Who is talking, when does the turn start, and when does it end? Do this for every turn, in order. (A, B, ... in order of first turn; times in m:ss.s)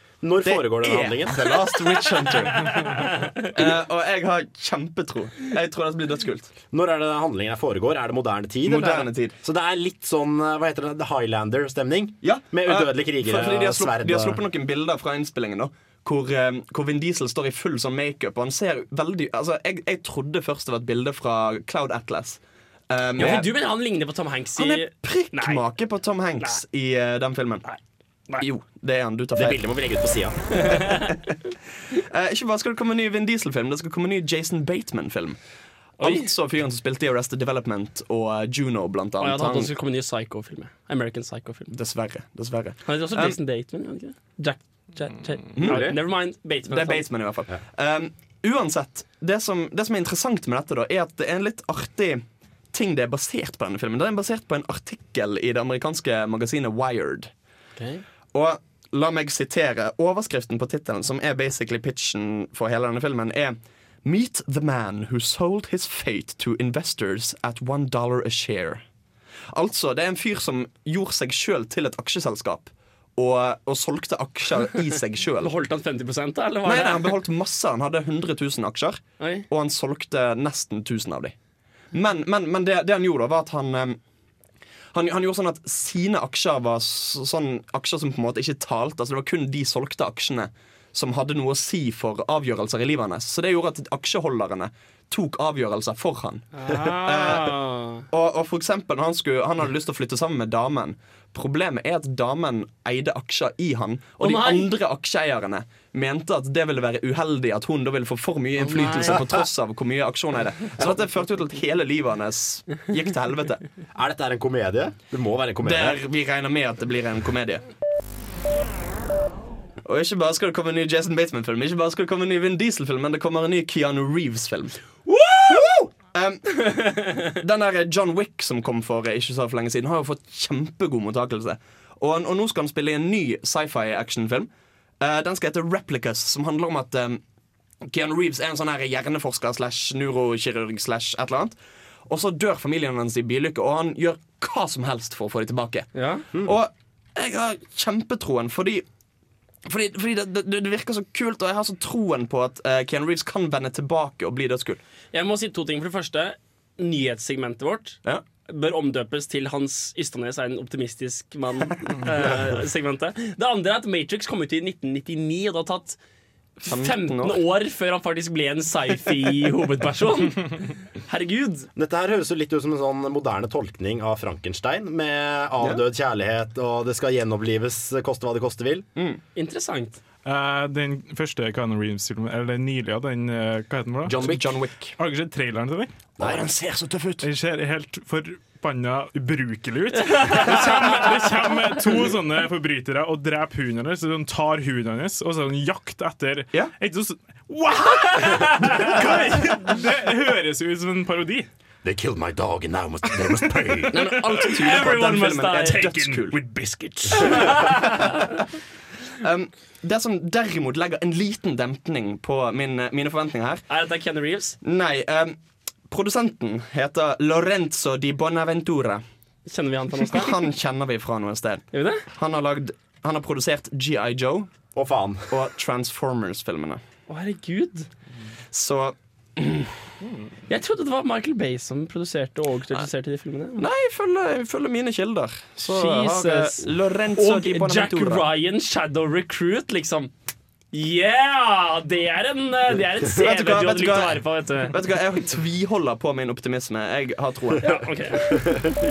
0:00.2-0:01.5 A
0:00.4-0:02.9 B
0:02.6-0:03.1 C
0:03.5-0:06.5 B
0:06.7-0:14.4 A
0:08.6-0:09.4 B
0:12.2-0:23.5 B
0:23.2-0:25.6 C
0:24.6-0:27.6 B
0:28.4-0:29.6 B
0:29.4-0:30.4 A
0:30.6-0:31.2 C
0:31.9-0:35.4 B
0:36.0-0:39.7 B
0:36.0-0:36.3 C
0:39.2-0:41.7 C
0:41.7-0:43.4 B
0:42.8-0:47.0 C
0:45.6-0:45.9 B
0:45.6-0:45.9 A
0:46.7-0:57.3 B
0:58.3-1:08.8 B
1:09.5-1:15.5 B
1:15.4-1:17.1 C
1:16.6-1:21.3 B
1:19.2-1:19.4 C
1:21.9-1:24.0 B
1:24.9-1:37.6 B
1:36.6-1:38.0 C
1:38.1-1:53.6 B
1:44.2-1:44.7 C
1:48.6-1:49.2 C
1:54.0-1:56.0 A
1:55.6-1:57.6 B
1:59.8-2:04.8 B
2:05.1-2:05.7 C
2:06.1-2:06.6 B
2:06.7-2:07.3 C
2:07.3-2:14.5 B
2:15.0-2:17.2 B
2:17.8-2:21.6 B
2:22.1-2:28.8 B
2:26.0-2:26.2 C
2:29.6-2:34.8 B
2:35.1-2:46.0 C
2:46.6-2:51.7 C
2:46.7-2:47.4 B
2:51.8-2:58.8 A
2:59.0-2:59.2 B
2:59.4-3:00.0 C
3:00.2-3:04.4 D
3:04.0-3:04.5 A
3:04.2-3:04.9 B
3:05.0-3:05.9 D
3:06.2-3:06.5 A
3:06.2-3:07.2 B
3:07.2-3:21.5 D
3:17.8-3:19.0 C
3:21.8-3:24.1 A
3:23.8-3:26.4 B
3:24.1-3:26.2 C
3:26.5-3:27.3 A
3:27.2-3:28.2 C
3:29.2-3:33.7 B
3:33.7-3:34.6 C
3:34.6-3:35.4 B
3:35.9-3:39.0 B
3:39.5-3:40.4 C
3:40.0-3:44.5 B
3:41.7-3:42.0 C
3:44.7-3:45.3 A
3:45.3-3:46.8 B
3:47.1-3:47.9 C
3:48.5-3:49.9 B
3:50.5-3:53.6 C
3:53.6-3:58.3 B
3:55.6-4:00.1 C
4:00.7-4:04.8 C
4:03.2-4:07.8 B
4:07.6-4:08.6 C